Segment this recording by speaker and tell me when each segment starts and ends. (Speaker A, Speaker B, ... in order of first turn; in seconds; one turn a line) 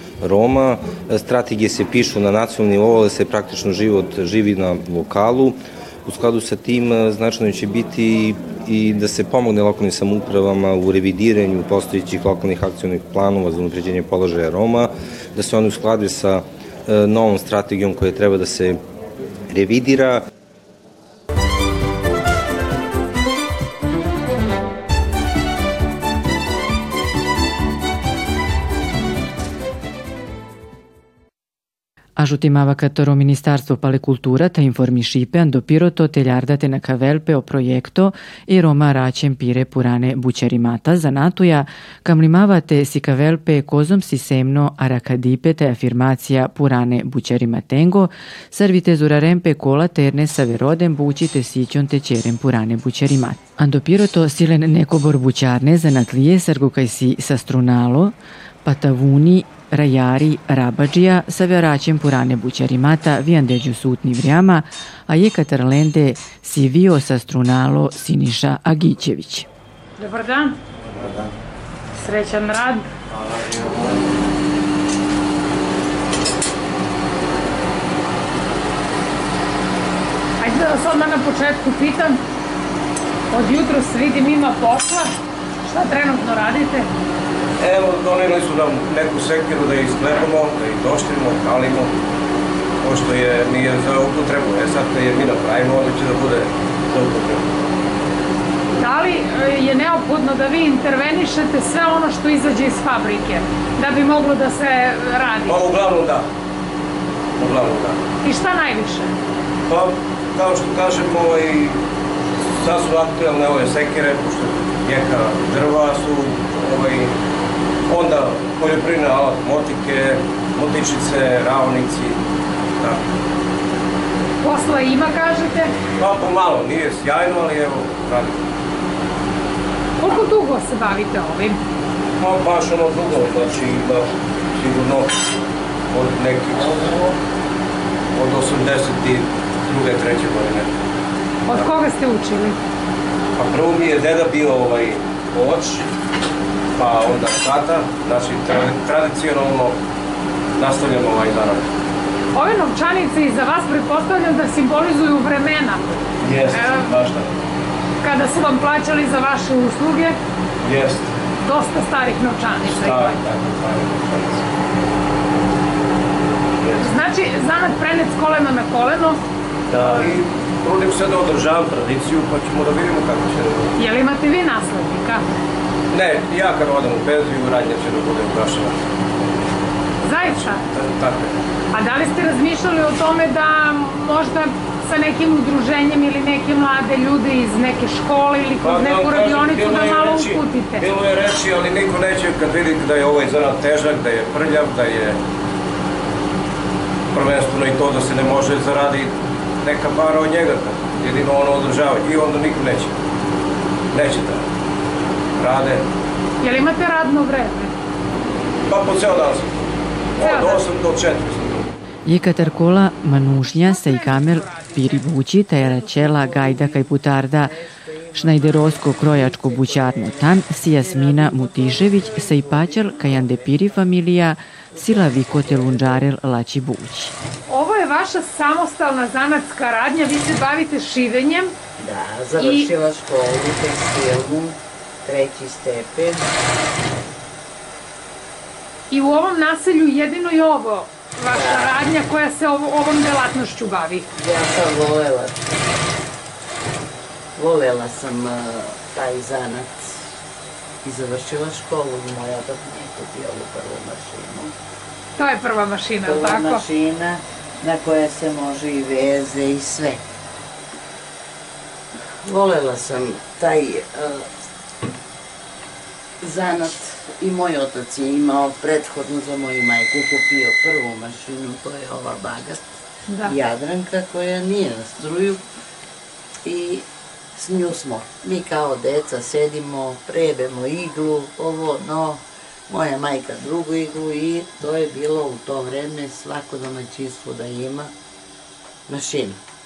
Speaker A: 0.2-18.8
Speaker A: 19.5-20.2
Speaker B: 32.2-69.5
Speaker C: 70.0-70.5
Speaker C: 72.0-72.9
Speaker C: 80.4-82.2
Speaker C: 83.3-85.1
Speaker C: 85.6-86.9
Speaker D: 87.6-91.9
Speaker D: 92.8-97.5
Speaker C: 98.8-105.6
Speaker D: 105.4-106.2
Speaker D: 107.4-108.0
Speaker C: 108.2-109.1
Speaker D: 109.7-111.8
Speaker D: 112.6-117.1
Speaker D: 117.9-122.2
Speaker C: 124.4-125.7
Speaker D: 126.0-128.4
Speaker C: 130.0-131.6
Speaker D: 132.2-135.1
Speaker D: 135.9-136.9
Speaker E: 136.7-137.1
Speaker D: 138.1-140.7
Speaker C: 141.5-142.6
Speaker D: 143.3-145.8
Speaker D: 146.8-149.8
Speaker D: 150.6-151.6
Speaker C: 152.3-155.8
Speaker D: 156.2-157.3
Speaker C: 156.5-156.9
Speaker C: 158.0-160.2
Speaker D: 160.6-161.1
Speaker C: 161.4-163.2
Speaker D: 162.6-164.4
Speaker D: 166.6-166.9
Speaker C: 166.8-169.2
Speaker D: 169.7-173.7
Speaker C: 169.8-170.1
Speaker C: 173.8-175.2
Speaker D: 175.9-178.8
Speaker C: 180.0-180.6
Speaker D: 180.2-181.3
Speaker C: 181.7-190.9
Speaker D: 188.6-195.2
Speaker D: 197.1-202.9
Speaker D: 203.9-204.4
Speaker D: 205.4-205.8
Speaker C: 206.4-207.7
Speaker D: 208.7-209.5
Speaker D: 210.2-211.7
Speaker C: 210.2-210.7
Speaker B: 212.1-217.6
Speaker C: 213.5-215.0
Speaker E: 215.6-223.9
Speaker B: 218.1-227.1
Speaker E: 224.7-226.1
Speaker C: 227.5-231.5
Speaker E: 231.8-236.3
Speaker C: 232.3-232.7
Speaker C: 238.9-244.1
Speaker E: 241.3-241.8
Speaker E: 244.1-245.4
Speaker E: 247.3-250.1
Speaker E: 250.8-254.5
Speaker C: 255.2-256.6
Speaker E: 256.0-260.0
Speaker E: 262.2-264.3
Speaker E: 266.2-272.6
Speaker C: 273.1-273.3
Speaker E: 273.2-275.4
Speaker E: 276.4-287.9
Speaker E: 288.9-289.4